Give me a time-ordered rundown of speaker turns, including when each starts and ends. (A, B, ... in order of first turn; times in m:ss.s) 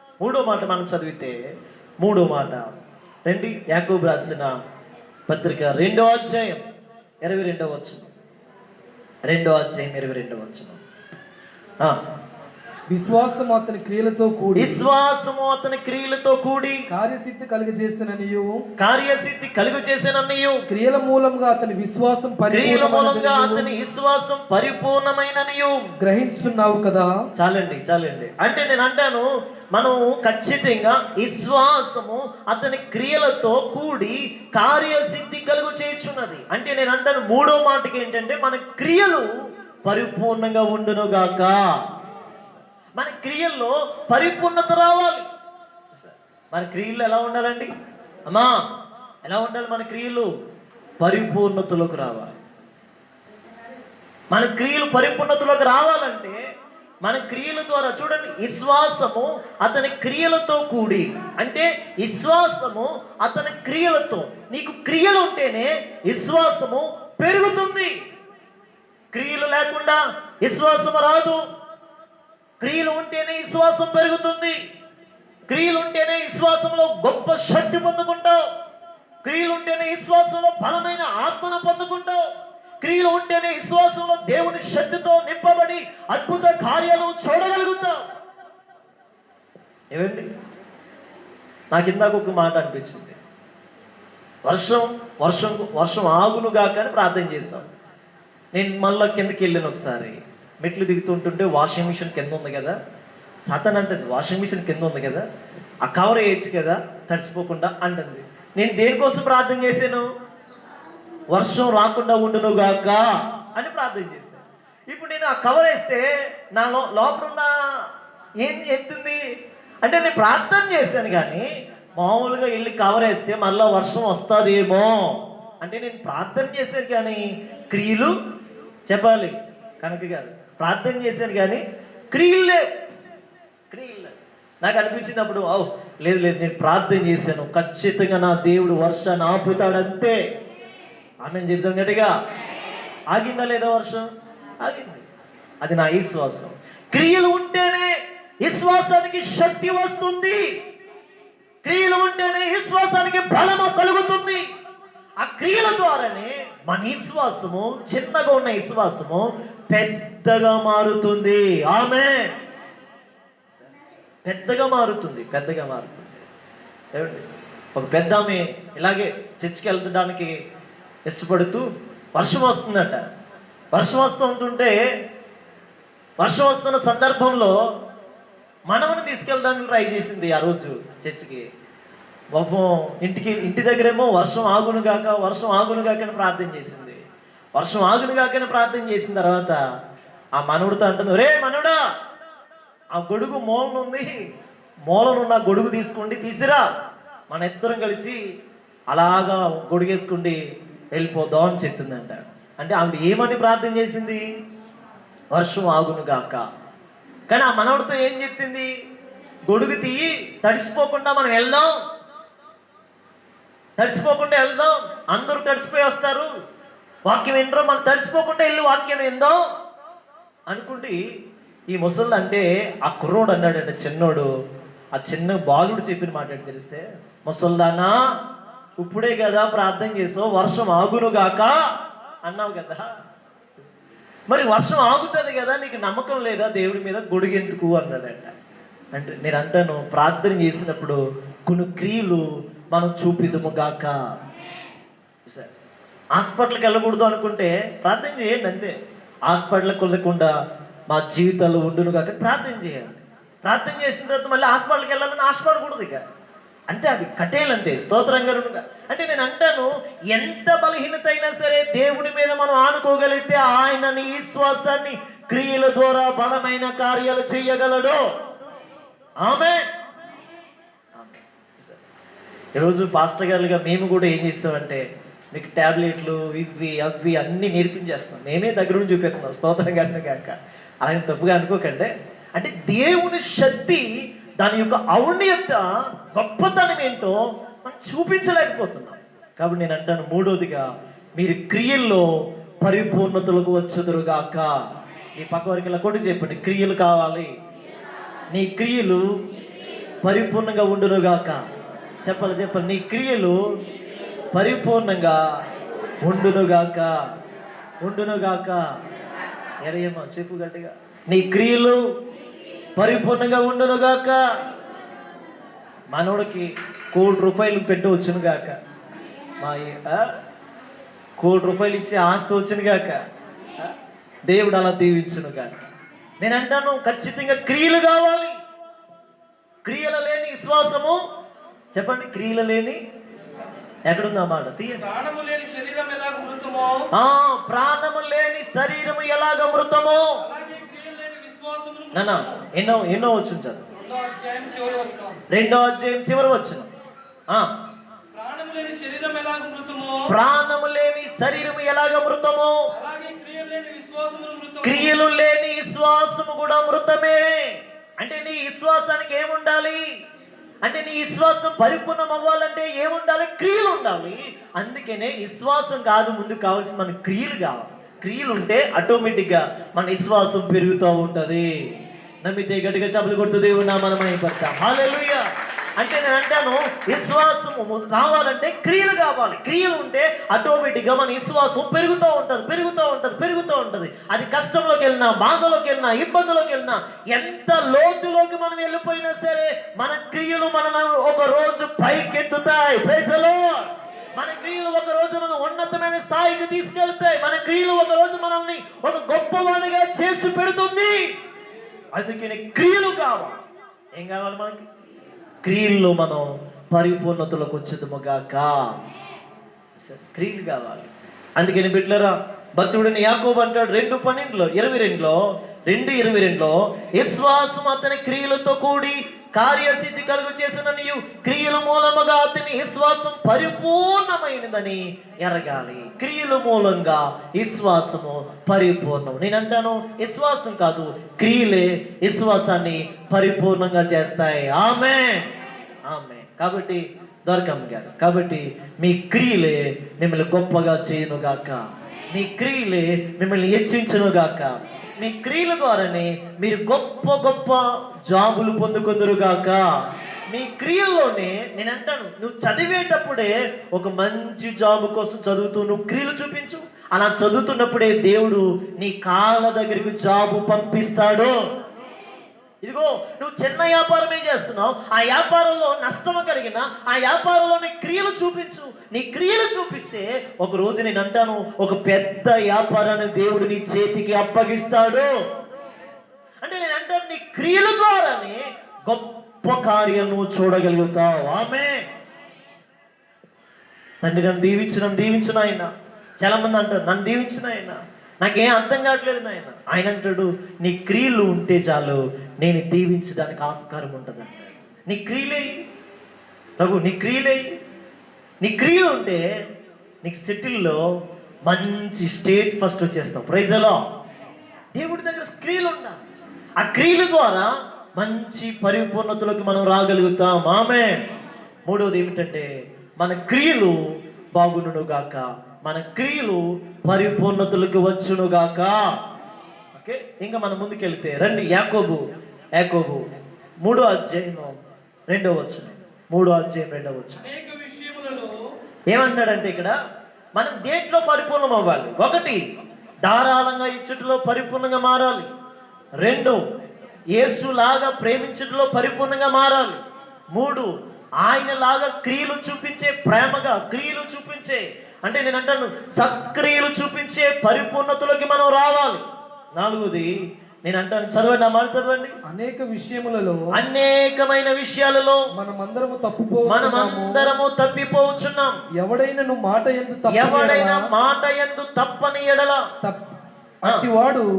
0:00.2-0:01.4 A
0:02.0-0:02.8 A
0:03.3-0:04.5 A
0:05.3-0:06.6 A
0:07.2-0:08.1 A
0:09.3-0:10.8 A
0:12.9-0:14.8 B
0:14.6-0:16.8 A
0:16.9-0:18.6 B
0:18.8-0:20.6 A
0:20.7-0:23.6 B
0:22.5-0:25.8 A
0:26.0-0:27.1 B
0:27.4-0:39.3 A
0:39.8-0:41.6 A
0:42.5-0:45.3 A
0:46.0-0:47.7 A
0:48.3-0:48.6 A
0:49.2-0:50.3 A
0:51.0-0:52.3 A
0:54.3-0:56.4 A
0:57.0-1:07.9 A
1:09.1-1:11.4 A
1:12.6-1:14.6 A
1:15.5-1:18.4 A
1:19.2-1:22.2 A
1:22.8-1:28.0 A
1:29.9-1:30.3 A
1:31.7-1:33.2 A
1:34.5-1:37.7 A
1:38.5-1:42.8 A
1:43.5-1:45.2 A
1:45.8-1:50.1 A
1:51.3-1:57.5 A
1:58.4-1:59.2 A
1:59.8-2:08.1 A
2:08.9-2:12.6 A
2:13.7-2:20.2 A
2:21.2-2:22.1 A
2:23.1-2:24.1 A
2:24.6-2:25.0 A
2:25.6-2:27.9 A
2:28.4-2:30.5 A
2:31.6-2:34.5 A
2:35.2-2:42.4 A
2:44.3-2:46.3 A
2:47.0-2:47.2 A
2:47.8-2:50.4 A
2:51.1-2:53.0 A
2:53.7-2:54.8 A
2:56.2-2:57.6 A
2:58.7-3:01.5 A
3:02.4-3:07.0 A
3:07.6-3:09.6 A
3:10.4-3:11.8 A
3:12.9-3:14.1 A
3:14.9-3:16.7 A
3:17.3-3:18.2 A
3:18.9-3:20.4 A
3:20.9-3:24.2 A
3:25.3-3:26.4 A
3:27.3-3:28.7 A
3:29.5-3:31.8 A
3:33.8-3:36.3 A
3:37.1-3:39.4 A
3:40.5-3:41.0 A
3:41.7-3:44.3 A
3:45.0-3:48.0 A
3:48.8-3:51.6 A
3:52.3-3:52.8 A
3:54.3-3:58.3 A
3:58.9-4:04.2 A
4:06.2-4:08.8 A
4:09.3-4:10.3 A
4:10.9-4:16.0 A
4:16.7-4:28.0 A
4:29.2-4:29.7 A
4:30.9-4:31.8 A
4:32.6-4:43.9 A
4:44.4-4:52.1 A
4:52.6-4:54.6 A
4:55.2-4:57.3 A
4:58.3-4:59.1 A
5:00.0-5:01.4 A
5:02.0-5:03.4 A
5:04.3-5:05.2 A
5:06.0-5:07.0 A
5:07.8-5:08.6 A
5:09.6-5:11.8 A
5:12.8-5:14.2 A
5:15.9-5:18.6 A
5:19.4-5:20.1 A
5:21.2-5:23.0 A
5:24.3-5:25.6 A
5:26.2-5:28.4 A
5:29.6-5:31.0 A
5:31.7-5:32.8 A
5:33.9-5:34.8 A
5:34.8-5:36.9 B
5:36.9-5:40.2 A
5:40.2-5:42.5 B
5:41.9-5:43.6 A
5:43.8-5:45.2 B
5:45.3-5:46.7 A
5:48.1-5:50.1 B
5:50.1-5:52.6 A
5:52.7-5:55.0 B
5:54.6-5:59.8 A
6:00.6-6:11.5 A
6:12.2-6:15.2 A
6:15.8-6:41.1 A
6:42.0-6:43.4 A
6:44.0-6:44.6 A
6:45.4-6:48.8 A
6:49.8-7:15.3 A
7:15.9-7:29.7 A
7:30.3-7:41.4 A
7:42.6-7:55.1 A
7:56.4-8:01.8 A
8:04.0-8:15.5 A
8:16.6-8:17.4 A
8:18.4-8:19.2 A
8:20.0-8:20.8 A
8:21.5-8:23.8 A
8:24.8-8:26.0 A
8:26.6-8:31.0 A
8:31.7-8:32.5 A
8:33.0-8:33.8 A
8:34.4-8:38.8 A
8:39.7-8:42.0 A
8:42.6-8:43.0 A
8:43.6-8:44.6 A
8:45.1-8:47.3 A
8:47.2-8:48.4 B
8:48.9-8:49.7 A
8:50.4-8:52.4 A
8:53.0-8:55.3 A
8:56.0-8:56.4 A
8:57.1-8:59.8 A
9:00.4-9:09.0 A
9:09.6-9:10.1 A
9:10.6-9:12.2 A
9:12.3-9:13.4 B
9:13.5-9:15.2 A
9:15.3-9:17.3 B
9:16.5-9:18.6 A
9:18.8-9:20.9 B
9:20.1-9:22.6 A
9:22.8-9:23.1 B
9:23.6-9:24.3 B